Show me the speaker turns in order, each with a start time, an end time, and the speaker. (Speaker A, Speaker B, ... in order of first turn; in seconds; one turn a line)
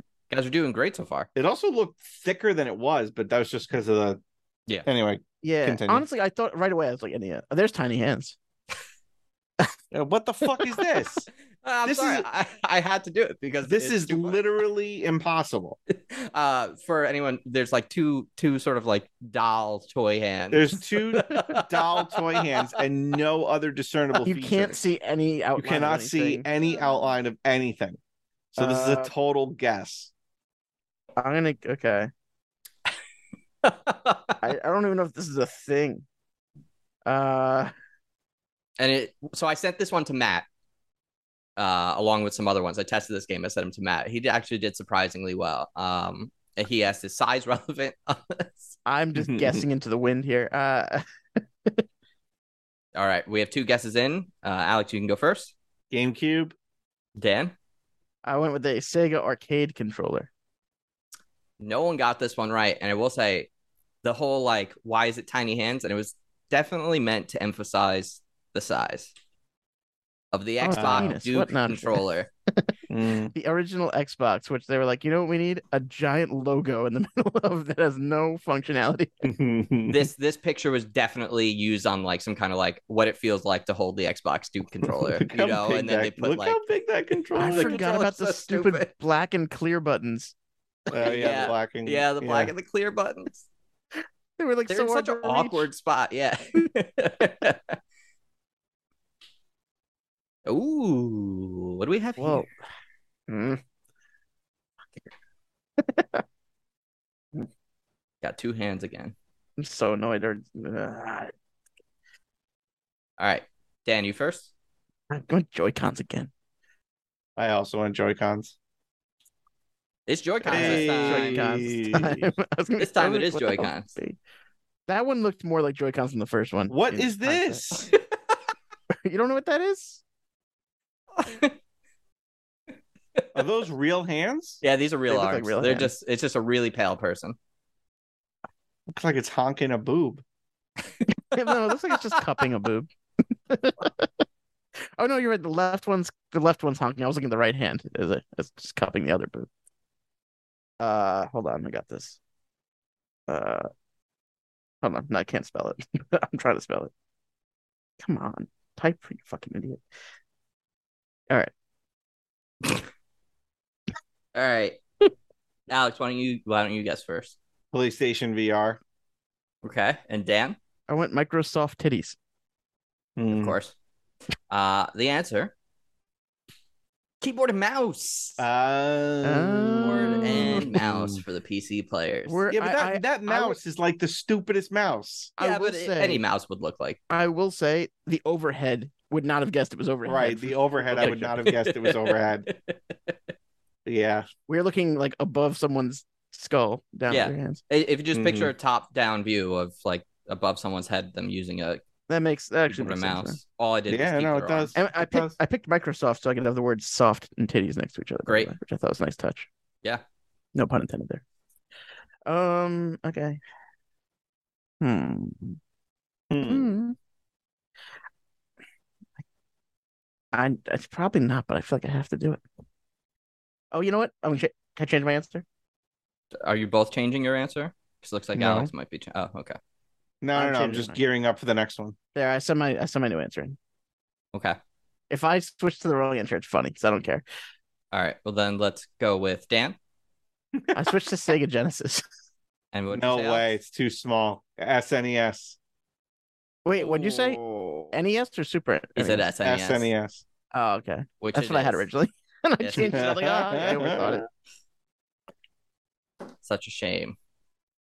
Speaker A: 0.3-1.3
Speaker B: 1.4-4.2
Speaker B: 4.8-6.0
Speaker C: 5.4-8.4
Speaker B: 9.9-11.3
Speaker A: 11.6-14.4
Speaker B: 11.8-12.3
Speaker B: 13.7-15.8
Speaker A: 15.9-22.7
Speaker B: 20.5-24.9
Speaker C: 24.3-26.5
Speaker B: 25.6-28.0
Speaker B: 28.5-30.1
Speaker C: 28.6-29.1
Speaker C: 31.2-32.1
Speaker A: 33.6-34.4
Speaker C: 34.4-36.0
Speaker C: 37.1-37.7
Speaker A: 38.8-40.5
Speaker A: 41.6-48.8
Speaker C: 48.9-51.0
Speaker B: 49.1-49.6
Speaker A: 53.0-55.5
Speaker B: 55.9-56.5
Speaker A: 57.2-57.5
Speaker C: 58.2-60.3
Speaker A: 61.6-63.5
Speaker A: 64.0-69.1
Speaker A: 70.3-72.3
Speaker C: 70.6-72.7
Speaker B: 70.7-71.1
Speaker B: 72.9-73.3
Speaker C: 73.3-79.3
Speaker B: 79.2-80.1
Speaker A: 79.9-86.6
Speaker B: 85.1-87.8
Speaker C: 87.4-90.3
Speaker A: 87.4-88.9
Speaker A: 90.9-93.5
Speaker B: 90.9-92.5
Speaker C: 94.4-95.7
Speaker A: 94.7-97.8
Speaker A: 100.5-102.5
Speaker C: 102.2-102.5
Speaker C: 103.3-103.6
Speaker C: 105.8-106.2
Speaker A: 108.2-109.1
Speaker C: 109.6-111.3
Speaker A: 113.2-114.5
Speaker C: 115.1-116.3
Speaker B: 117.4-118.5
Speaker A: 120.1-121.5
Speaker C: 120.4-124.2
Speaker B: 120.5-122.3
Speaker A: 122.8-123.9
Speaker C: 124.9-127.7
Speaker B: 126.7-127.9
Speaker C: 129.0-130.0
Speaker A: 131.2-131.5
Speaker B: 133.3-134.6
Speaker A: 134.6-137.4
Speaker C: 135.1-135.9
Speaker B: 138.9-140.2
Speaker A: 141.3-142.2
Speaker C: 141.3-142.9
Speaker C: 143.5-144.1
Speaker C: 145.0-149.5
Speaker C: 150.8-152.2
Speaker C: 153.3-153.7
Speaker C: 154.8-156.9
Speaker C: 158.0-159.8
Speaker A: 164.3-164.8
Speaker A: 165.7-167.4
Speaker B: 167.7-168.8
Speaker A: 169.6-170.6
Speaker C: 170.9-172.2
Speaker B: 173.2-173.6
Speaker A: 173.3-173.7
Speaker A: 174.5-175.5
Speaker A: 177.2-178.5
Speaker B: 178.4-181.1
Speaker C: 179.2-180.8
Speaker A: 179.8-182.4
Speaker C: 182.3-183.6
Speaker B: 182.5-185.3
Speaker C: 185.4-186.2
Speaker A: 185.4-187.0
Speaker C: 187.1-191.2
Speaker B: 190.1-192.5
Speaker A: 190.9-193.1
Speaker B: 193.9-194.3
Speaker C: 194.5-197.6
Speaker A: 197.1-201.8
Speaker B: 198.1-198.5
Speaker C: 202.1-203.4
Speaker A: 202.7-204.8
Speaker B: 203.9-205.4
Speaker C: 204.8-209.5
Speaker A: 208.3-208.5
Speaker C: 210.6-211.2
Speaker C: 212.3-213.4
Speaker C: 214.8-215.6
Speaker B: 216.3-216.7
Speaker C: 216.4-217.0
Speaker C: 220.3-222.4
Speaker C: 223.7-225.4
Speaker A: 226.4-229.6
Speaker C: 228.3-228.7
Speaker B: 230.2-232.0
Speaker C: 230.3-231.0
Speaker C: 232.1-233.6
Speaker A: 234.3-234.6
Speaker C: 235.1-237.2
Speaker A: 237.9-239.8
Speaker B: 240.6-240.9
Speaker C: 240.7-242.1
Speaker A: 242.7-243.5
Speaker B: 242.9-245.6
Speaker C: 246.6-247.4
Speaker B: 246.8-247.9
Speaker C: 247.9-249.2
Speaker A: 249.0-249.9
Speaker B: 249.4-250.2
Speaker C: 250.5-254.2
Speaker A: 251.2-251.9
Speaker A: 252.6-253.0
Speaker B: 252.8-254.2
Speaker A: 256.4-257.2